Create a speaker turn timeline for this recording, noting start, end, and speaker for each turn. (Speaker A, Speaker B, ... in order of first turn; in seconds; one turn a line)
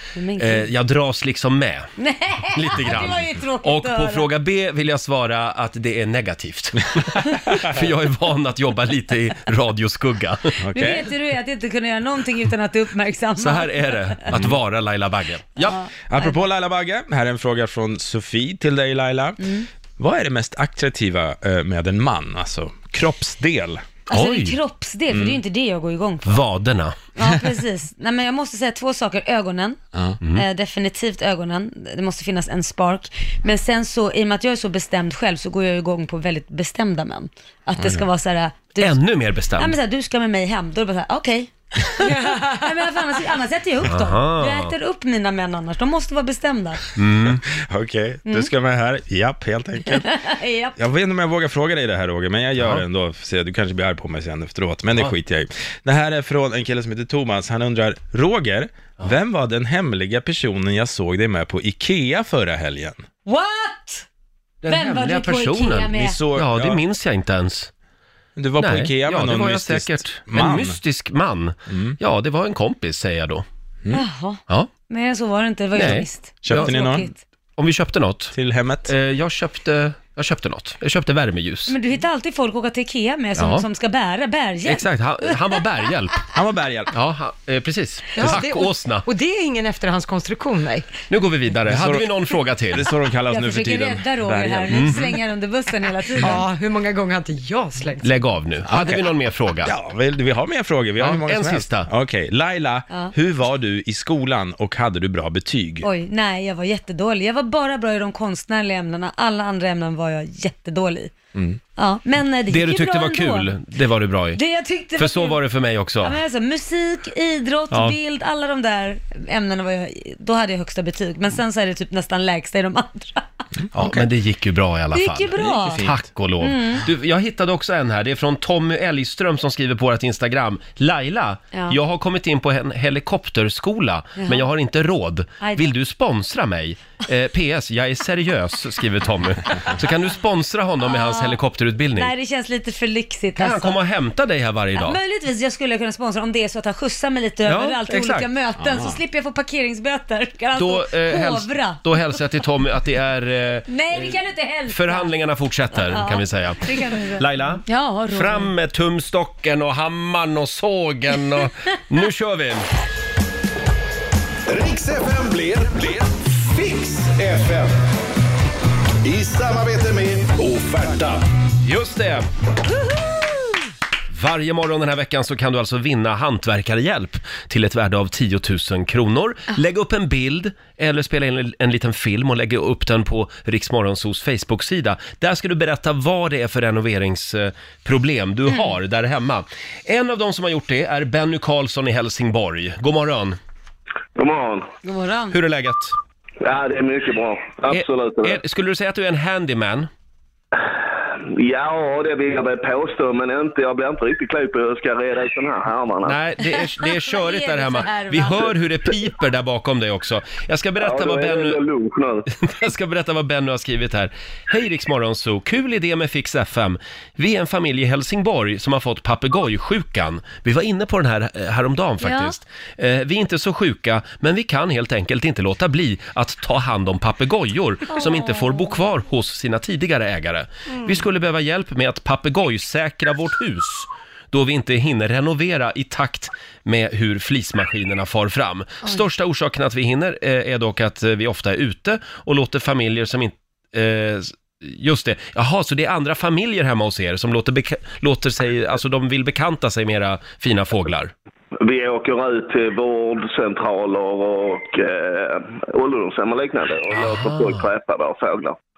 Speaker A: 0.1-0.7
Speaker B: 0.4-1.9
Speaker A: 2.0-4.3
Speaker B: 2.5-10.6
Speaker C: 10.6-11.1
Speaker A: 10.7-14.3
Speaker B: 13.4-15.8
Speaker C: 14.3-14.6
Speaker A: 15.6-16.3
Speaker C: 16.1-19.4
Speaker A: 19.4-19.6
Speaker C: 20.0-23.8
Speaker A: 24.1-26.4
Speaker B: 24.1-24.6
Speaker C: 25.1-25.4
Speaker B: 26.2-26.9
Speaker A: 27.1-29.8
Speaker A: 30.3-39.0
Speaker C: 37.8-38.0
Speaker B: 38.8-39.8
Speaker A: 39.6-46.8
Speaker D: 42.0-42.6
Speaker B: 43.8-44.7
Speaker B: 47.0-47.4
Speaker C: 47.5-50.1
Speaker A: 49.9-50.8
Speaker C: 50.8-63.0
Speaker B: 52.6-52.8
Speaker A: 63.2-64.0
Speaker B: 64.6-67.7
Speaker A: 64.7-66.2
Speaker C: 65.9-66.8
Speaker C: 68.3-70.8
Speaker B: 68.6-73.4
Speaker C: 71.7-72.0
Speaker A: 73.9-77.2
Speaker B: 75.7-76.7
Speaker C: 76.4-77.1
Speaker B: 77.6-78.3
Speaker C: 78.3-78.9
Speaker B: 78.8-81.8
Speaker A: 81.7-85.6
Speaker B: 83.3-83.7
Speaker B: 84.6-86.2
Speaker C: 86.3-86.9
Speaker B: 86.9-89.0
Speaker D: 88.2-91.0
Speaker B: 91.1-92.9
Speaker C: 91.7-92.1
Speaker C: 92.7-95.1
Speaker A: 93.3-96.4
Speaker B: 94.7-95.0
Speaker D: 96.2-98.1
Speaker B: 98.0-99.7
Speaker C: 98.7-99.1
Speaker C: 99.6-105.9
Speaker B: 101.0-101.9
Speaker A: 105.8-111.1
Speaker C: 111.3-111.6
Speaker A: 111.8-113.5
Speaker B: 112.5-114.4
Speaker A: 114.3-115.4
Speaker B: 115.0-116.2
Speaker A: 116.0-123.2
Speaker B: 117.7-118.0
Speaker C: 123.7-124.1
Speaker B: 123.8-142.1
Speaker A: 124.9-125.8
Speaker C: 125.4-126.0
Speaker A: 126.4-126.8
Speaker A: 131.5-131.8
Speaker A: 134.2-134.5
Speaker A: 135.4-135.7
Speaker A: 140.8-141.4
Speaker A: 141.9-143.8
Speaker B: 143.4-145.0
Speaker A: 144.8-152.2
Speaker B: 147.4-148.3
Speaker C: 148.6-149.0
Speaker B: 150.5-154.1
Speaker A: 153.7-155.1
Speaker B: 154.7-162.7
Speaker A: 155.7-158.5
Speaker E: 164.5-167.7
Speaker E: 169.0-171.2
Speaker B: 171.6-172.3
Speaker B: 174.1-193.4
Speaker A: 188.5-188.7
Speaker F: 194.2-194.7
Speaker A: 194.8-195.3
Speaker B: 195.3-196.0
Speaker F: 196.4-198.4
Speaker B: 197.7-199.9
Speaker F: 200.6-206.2
Speaker B: 206.0-211.6
Speaker A: 206.4-208.5
Speaker F: 210.8-212.3
Speaker B: 212.3-251.1
Speaker A: 222.0-222.4
Speaker A: 227.9-228.8
Speaker F: 251.6-258.6
Speaker B: 256.9-257.7